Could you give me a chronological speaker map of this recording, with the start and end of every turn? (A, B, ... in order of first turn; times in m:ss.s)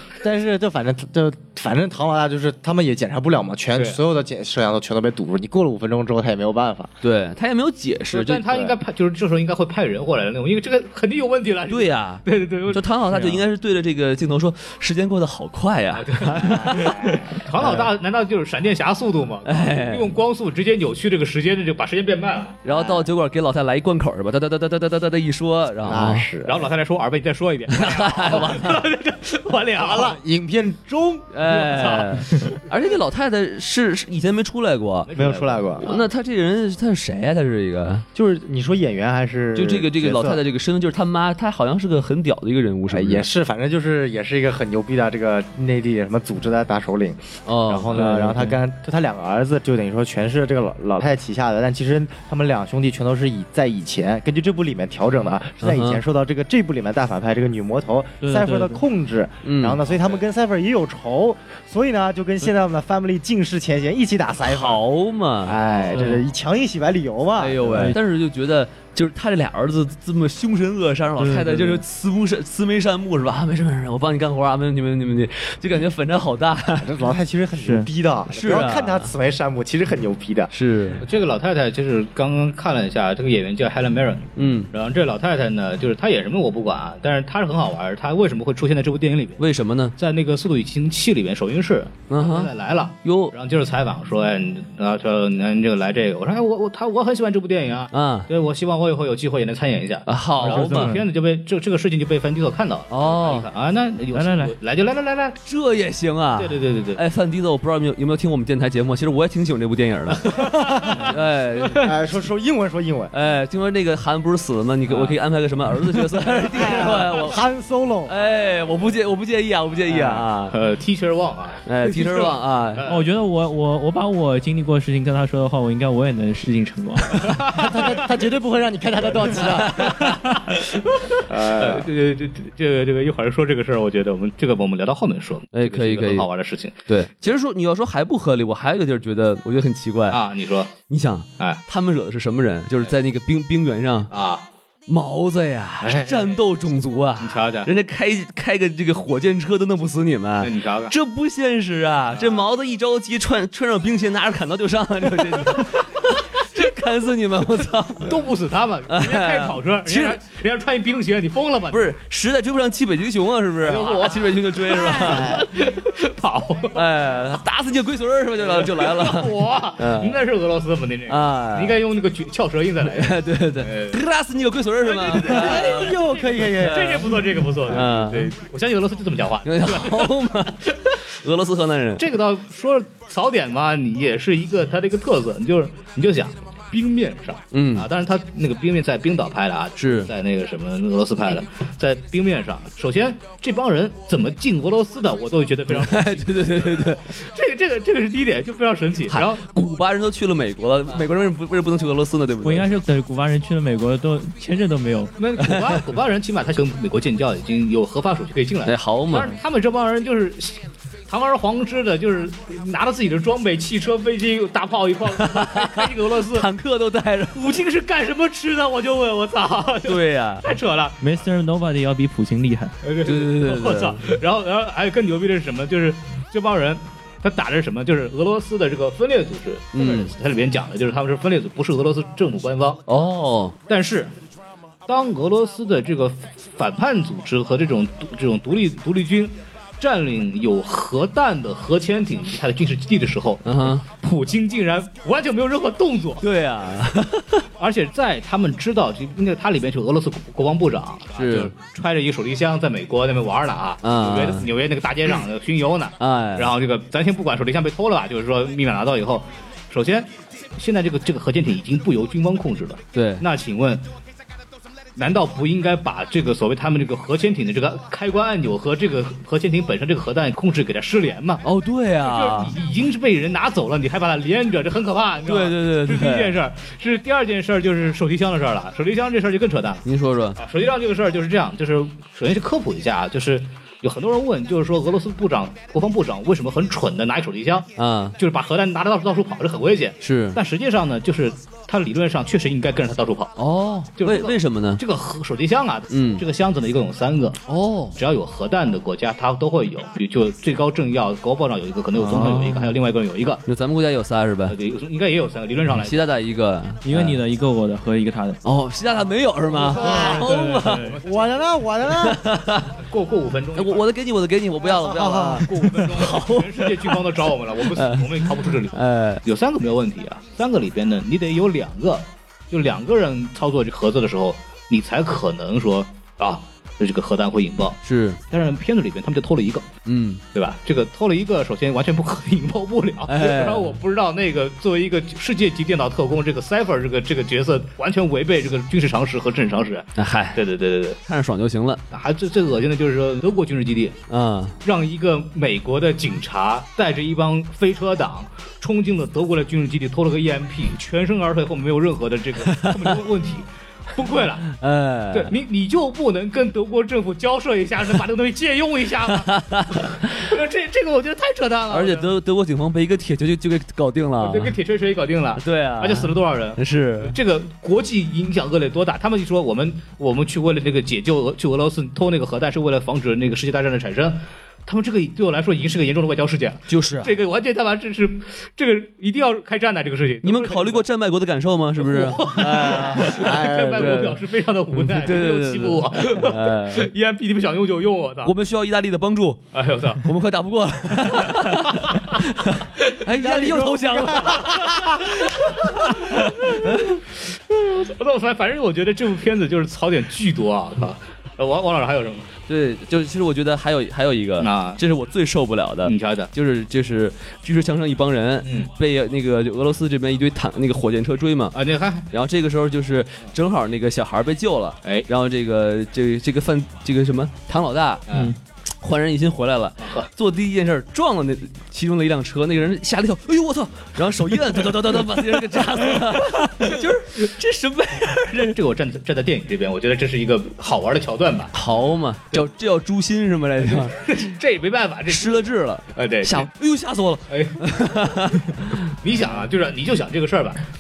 0:00.2-0:06.9 A
0:03.8-0:04.0 B
0:07.0-0:08.6 C
0:08.1-0:13.4 B
0:11.7-0:17.8 C
0:15.9-0:22.6 B
0:16.4-0:17.3 A
0:19.4-0:20.2 C
0:22.6-0:26.3 C
0:22.7-0:23.1 A
0:25.8-0:26.7 A
0:26.4-0:30.2 B
0:27.7-0:28.8 C
0:29.8-0:31.3 A
0:31.3-0:35.1 C
0:31.4-0:32.6 B
0:35.1-0:36.1 B
0:35.1-0:35.9 A
0:35.8-0:38.0 C
0:38.1-0:40.4 A
0:39.6-0:43.3 C
0:42.9-1:04.8 A
0:47.5-0:48.5 C
0:55.6-0:56.0 C
0:58.2-0:58.8 D
0:59.4-0:59.8 C
0:59.8-1:00.2 B
1:04.4-1:05.6 C
1:05.4-1:08.0 A
1:06.0-1:06.2 D
1:07.4-1:17.1 C
1:07.7-1:08.0 D
1:11.2-1:11.8 D
1:16.8-1:20.5 A
1:17.6-1:17.9 D
1:18.3-1:19.1 C
1:20.5-1:21.0 C
1:21.0-1:29.4 B
1:24.4-1:24.7 C
1:29.4-1:30.0 C
1:30.0-1:45.4 B
1:32.1-1:32.5 C
1:33.0-1:33.3 C
1:37.9-1:38.3 C
1:40.1-1:41.0 C
1:40.4-1:41.0 D
1:42.9-1:43.5 C
1:44.1-1:44.6 D
1:45.5-1:51.9 C
1:46.4-1:47.0 B
1:50.2-1:51.9 B
1:50.6-1:51.1 A
1:51.8-1:53.1 A
1:53.1-1:57.4 C
1:54.9-1:55.2 B
1:56.4-1:57.0 B
1:56.4-1:58.2 A
1:58.1-2:00.6 C
1:59.9-2:03.1 B
2:01.7-2:02.8 C
2:02.9-2:07.3 D
2:07.2-2:08.0 B
2:07.5-2:10.0 A
2:09.4-2:10.2 C
2:10.3-2:16.8 B
2:11.3-2:11.9 A
2:15.5-2:16.3 C
2:16.9-2:20.2 C
2:20.1-2:20.8 B
2:20.9-2:24.1 C
2:24.1-2:24.4 B
2:24.9-2:38.3 C
2:25.8-2:26.3 A
2:27.2-2:27.7 B
2:30.4-2:30.9 B
2:32.1-2:32.5 B
2:38.0-2:41.9 B
2:38.9-2:40.2 C
2:41.7-2:45.5 C
2:43.6-2:46.8 B
2:46.8-2:50.2 C
2:48.4-2:54.0 B
2:51.1-2:51.8 C
2:52.8-2:58.3 C
2:54.8-2:56.0 B
2:55.2-2:57.1 A
2:56.6-3:00.8 B
2:59.4-3:02.2 C
3:02.0-3:19.4 B
3:07.5-3:07.9 C
3:09.8-3:10.1 C
3:15.7-3:17.1 C
3:19.1-3:22.7 C
3:22.4-3:25.2 D
3:25.2-3:36.5 B
3:25.4-3:25.8 C
3:28.7-3:29.3 C
3:35.1-3:37.4 C
3:37.3-3:41.0 B
3:39.9-3:40.5 C
3:41.0-3:42.8 D
3:42.8-3:52.8 B
3:43.0-3:44.1 C
3:49.7-3:50.1 C
3:52.9-3:53.6 C
3:53.7-3:54.1 B
3:54.9-4:06.3 B
4:03.4-4:03.8 C
4:06.2-4:07.5 C
4:07.6-4:23.9 B
4:11.2-4:11.5 C
4:13.8-4:14.5 C
4:16.0-4:16.6 C
4:22.9-4:23.2 C
4:25.0-4:31.4 B
4:31.4-4:32.6 C
4:32.0-4:39.8 B
4:35.2-4:36.4 C
4:39.8-4:40.4 C
4:40.4-4:53.4 B
4:47.8-4:48.2 C
4:50.0-4:50.4 C
4:53.4-4:54.8 C
4:54.0-4:57.4 B
4:55.9-4:56.2 C
4:57.5-4:58.0 C
4:58.0-5:03.4 B
5:02.0-5:02.6 C
5:02.0-5:02.5 D
5:03.5-5:04.6 C
5:04.5-5:06.0 B
5:05.8-5:07.2 C
5:06.8-5:08.4 D
5:08.4-5:10.9 C
5:09.5-5:11.5 B
5:09.7-5:10.4 A
5:10.2-5:11.0 D
5:11.0-5:12.2 A
5:11.8-5:12.7 C
5:12.8-5:13.9 B
5:13.6-5:17.0 C
5:14.6-5:15.6 A
5:15.3-5:29.7 B
5:17.7-5:19.2 C
5:27.8-5:28.2 C
5:29.9-5:30.2 C
5:30.3-5:41.0 B
5:33.1-5:33.8 C
5:40.0-5:40.4 C
5:41.1-5:41.8 C
5:41.9-5:44.0 B
5:44.1-5:44.6 C
5:44.6-5:54.5 B
5:52.5-5:53.0 C
5:54.5-5:55.3 C
5:55.1-6:02.1 B
5:59.1-6:00.1 C
6:01.7-6:04.6 C
6:04.2-6:20.9 B
6:05.4-6:07.2 C
6:16.7-6:17.1 C
6:20.2-6:24.2 C
6:21.8-6:28.3 B
6:23.0-6:24.1 A
6:24.7-6:26.9 C
6:28.2-6:37.0 C
6:29.5-6:30.0 B
6:31.2-6:32.0 B
6:33.2-6:34.7 B
6:33.2-6:35.1 A
6:35.2-6:36.7 B
6:37.3-6:42.3 B
6:42.5-6:51.6 C
6:44.4-6:44.8 B
6:45.8-6:46.3 B
6:48.4-6:48.7 B
6:51.5-6:52.1 B
6:52.1-6:58.0 C
6:58.1-6:58.3 B
6:58.1-6:58.4 D
6:58.8-7:08.6 C
7:08.4-7:11.6 B
7:11.5-7:14.2 C
7:13.6-7:16.5 B
7:15.1-7:18.9 C
7:17.3-7:20.6 B